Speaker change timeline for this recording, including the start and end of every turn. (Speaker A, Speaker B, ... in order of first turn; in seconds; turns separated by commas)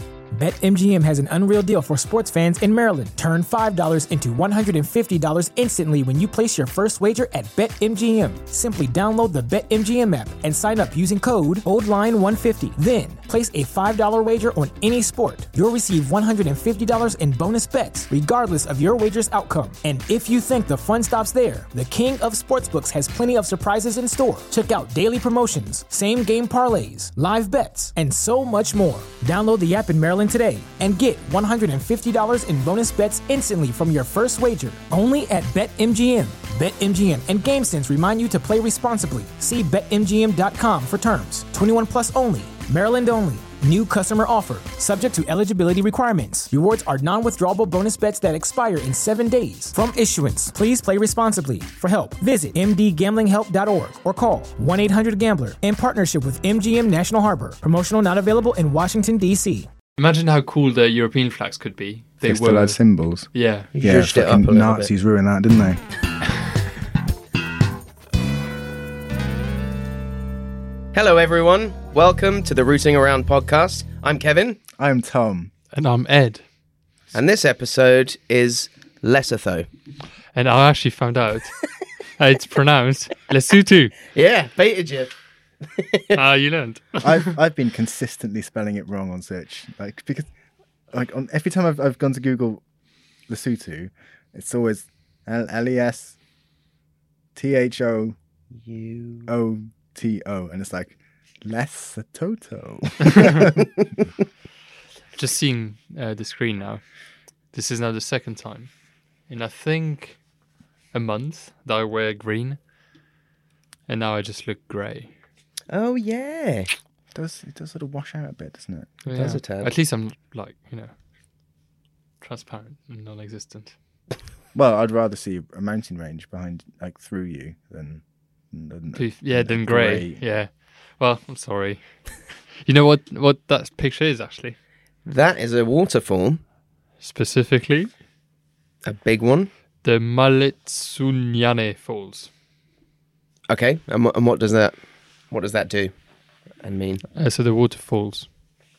Speaker A: 0.3-59.7, Speaker B: 60.0-62.8, Speaker C: 62.2-65.8, Speaker B: 63.3-63.7, Speaker D: 63.7-64.9, Speaker D: 70.9-74.6, Speaker C: 74.8-75.5, Speaker B: 75.7-76.4, Speaker D: 77.1-79.7, Speaker B: 80.3-81.6, Speaker B: 82.2-83.9, Speaker D: 84.1-85.1, Speaker D: 85.7-86.2, Speaker B: 86.1-87.3, Speaker C: 87.0-90.3, Speaker C: 90.9-92.6, Speaker C: 93.3-96.2, Speaker C: 97.3-98.2, Speaker D: 98.6-99.3, Speaker C: 99.3-103.6, Speaker B: 105.2-106.8, Speaker B: 107.5-108.7, Speaker B: 109.3-110.2, Speaker B: 110.9-112.6, Speaker B: 113.9-115.1, Speaker D: 115.7-116.7, Speaker C: 117.1-118.9, Speaker B: 119.0-120.9, Speaker D: 119.1-119.7, Speaker B: 122.2-123.8, Speaker C: 124.5-130.2, Speaker B: 128.9-131.8, Speaker B: 132.7-134.6, Speaker D: 135.1-136.4, Speaker B: 137.0-137.9, Speaker D: 138.8-139.5, Speaker B: 139.8-142.3, Speaker D: 143.5-144.8, Speaker D: 145.3-145.9, Speaker D: 146.6-147.0, Speaker B: 147.1-148.3